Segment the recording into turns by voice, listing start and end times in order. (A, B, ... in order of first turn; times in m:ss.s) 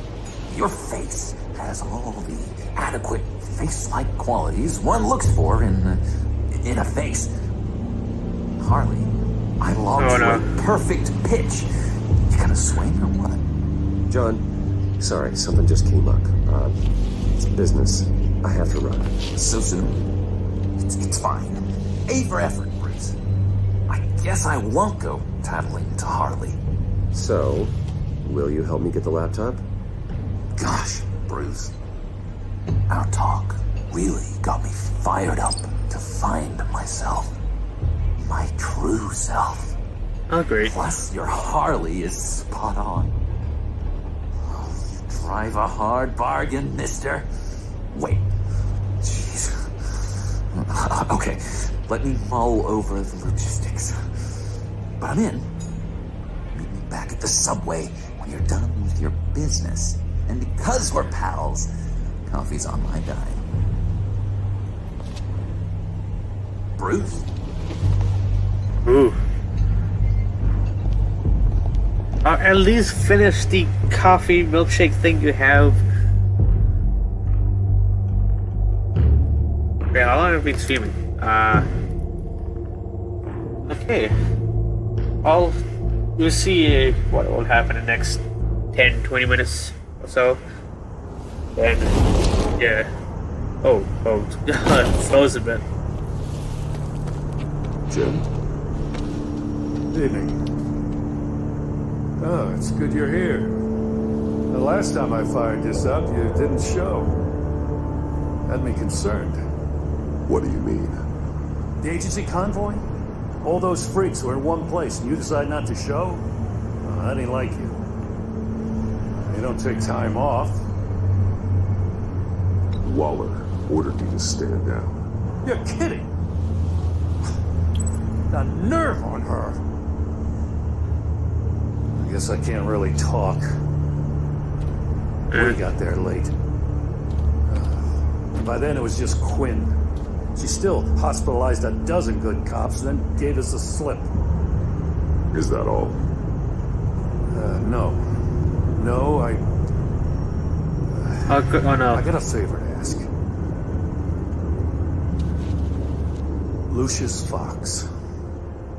0:00.5-0:07.3 A
0:08.6-0:11.7 A
0:10.0-0:10.4 B
0:12.3-0:13.4 A
0:14.1-0:14.4 C
0:15.0-0:16.8 C
0:17.4-0:19.2 C
0:19.3-0:20.1 A
0:20.8-0:23.2 A
0:23.9-0:26.6 A
0:27.1-0:29.6 C
0:30.6-0:31.7 A
0:32.9-0:37.4 A
0:38.2-0:39.7 A
0:40.3-0:40.7 B
0:40.7-0:43.2 A
0:44.5-0:47.3 A
0:47.9-0:48.3 A
0:49.0-0:54.3 A
0:55.0-0:55.5 A
0:56.5-1:01.7 A
1:02.3-1:03.4 A
1:06.8-1:07.3 A
1:08.8-1:09.2 B
1:12.2-1:15.8 B
1:19.9-1:21.6 B
1:23.7-1:24.1 B
1:25.2-1:25.6 B
1:26.2-1:28.2 B
1:28.7-1:30.4 B
1:31.6-1:31.9 B
1:32.6-1:32.9 B
1:33.6-1:35.6 B
1:37.9-1:38.2 D
1:39.9-1:40.4 E
1:42.2-1:43.5 E
1:44.5-1:47.1 E
1:48.5-1:49.4 E
1:50.2-1:51.0 D
1:51.8-1:52.8 E
1:53.4-1:56.2 E
1:56.8-1:57.8 E
1:59.2-2:00.6 E
2:02.8-2:05.0 D
2:05.4-2:06.1 E
2:08.3-2:09.6 E
2:12.0-2:13.4 E
2:15.3-2:15.6 B
2:15.3-2:16.3 E
2:17.4-2:19.8 E
2:20.3-2:24.1 E
2:25.3-2:26.0 D
2:27.3-2:28.0 E
2:28.8-2:29.4 E
2:30.9-2:33.1 E
2:31.3-2:32.0 B
2:36.7-2:37.9 E